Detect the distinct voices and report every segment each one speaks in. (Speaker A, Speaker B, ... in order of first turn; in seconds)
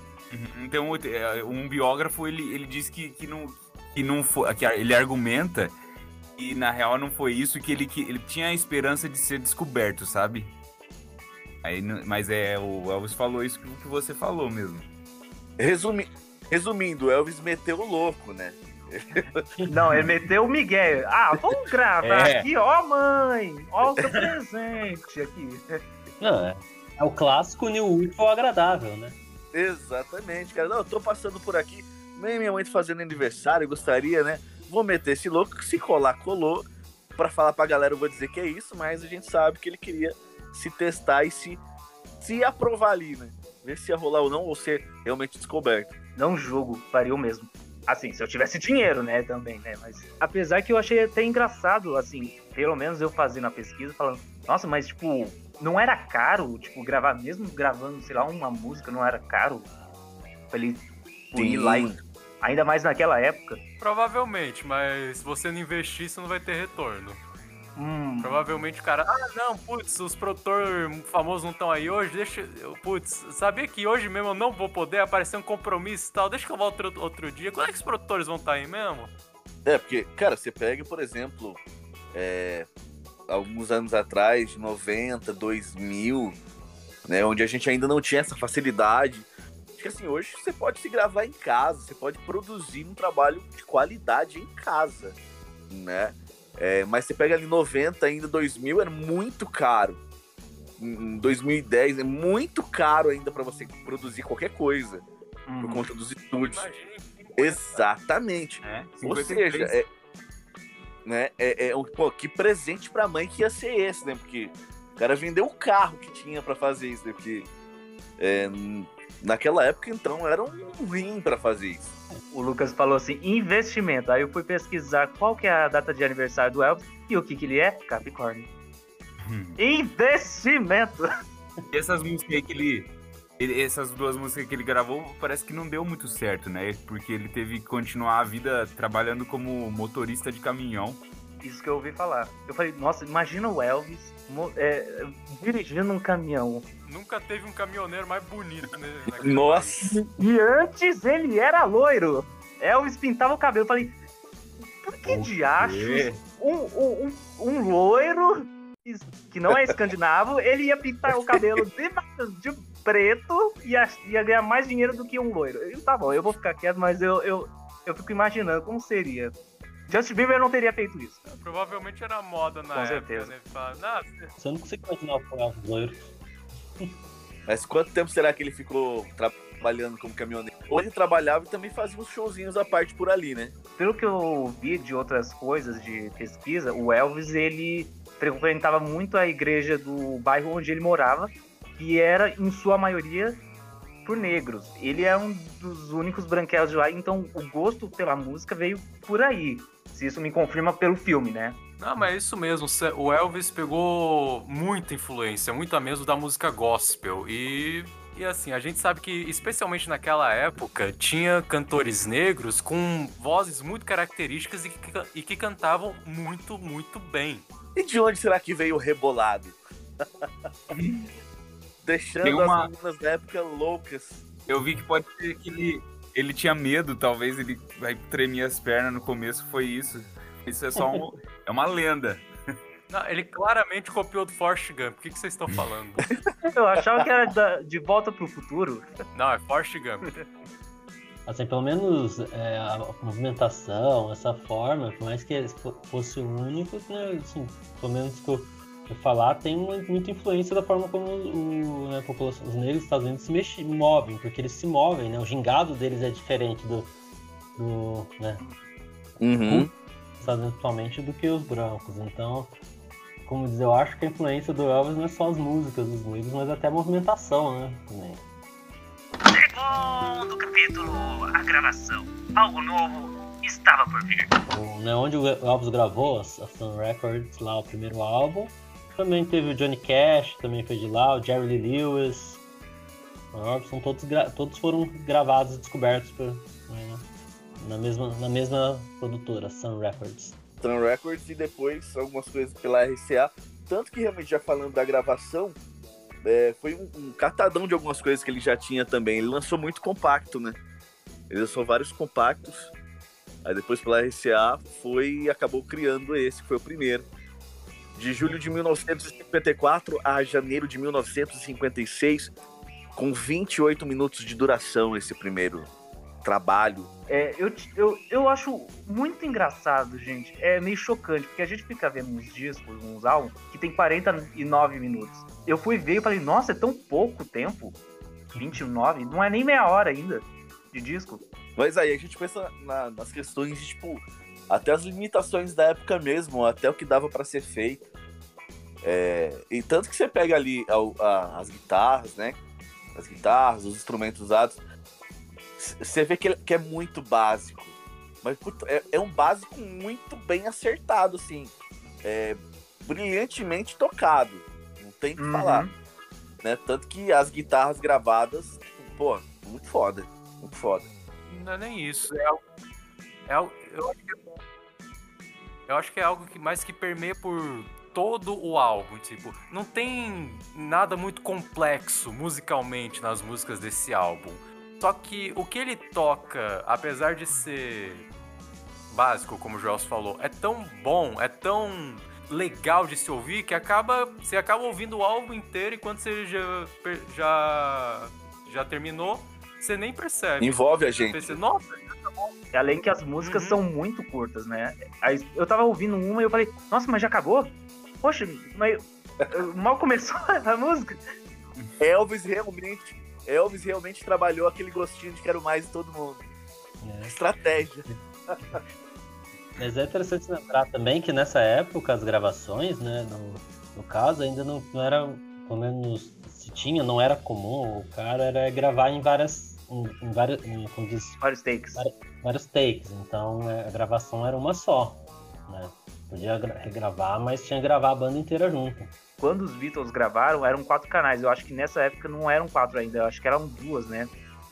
Speaker A: 0.3-5.8, 6.4-10.5, 11.6-14.9, 22.0-22.5, 108.6-109.8, 129.2-129.6, 131.7-141.0, 155.1-156.2, 220.7-221.1, 222.2-222.7, 224.5-232.3
Speaker B: 15.6-19.5, 29.5-36.6, 37.2-41.6, 42.2-45.9, 61.4-62.0, 79.7-81.6, 82.1-82.7, 83.3-86.4, 87.1-95.2, 95.7-100.0, 100.8-105.0, 105.6-106.7, 107.4-109.9, 111.1-117.5, 118.2-121.9, 149.2-150.1, 177.5-183.6, 217.8-220.5, 221.8-224.2, 259.2-259.7, 290.6-295.6, 296.2-300.6, 301.3-302.7, 303.4-307.1, 307.9-312.3, 313.0-315.7, 316.2-316.9, 331.6-337.9, 338.8-342.4, 342.9-344.6, 345.6-355.7, 356.4-360.9, 390.4-391.4, 401.8-406.3, 407.1-408.6
Speaker C: 19.7-25.6, 46.2-59.7, 60.5-63.6, 67.8-68.4, 105.5-105.9, 122.3-128.5, 129.6-131.0, 141.4-146.7, 150.2-153.9, 154.8-169.3, 169.9-171.2, 172.7-173.3, 183.8-193.4, 194.1-201.6, 236.5-238.9, 269.3-274.3, 317.1-327.8, 328.4-331.2, 355.2-355.7, 392.5-401.0, 421.2-421.8, 429.2-434.1
Speaker D: 26.2-29.2, 174.4-176.1, 241.3-256.9, 257.6-258.4, 259.5-262.5, 263.2-268.2, 274.5-282.4, 283.3-287.1, 287.6-290.4, 406.8-407.1, 409.6-421.2, 421.8-428.9
Speaker E: 63.8-67.2, 68.2-79.1, 106.4-107.9, 146.9-149.8, 171.2-174.3, 201.8-217.5, 232.9-236.1, 239.1-240.1, 361.3-362.4, 363.3-364.1, 365.7-378.1, 378.9-392.4, 393.2-393.6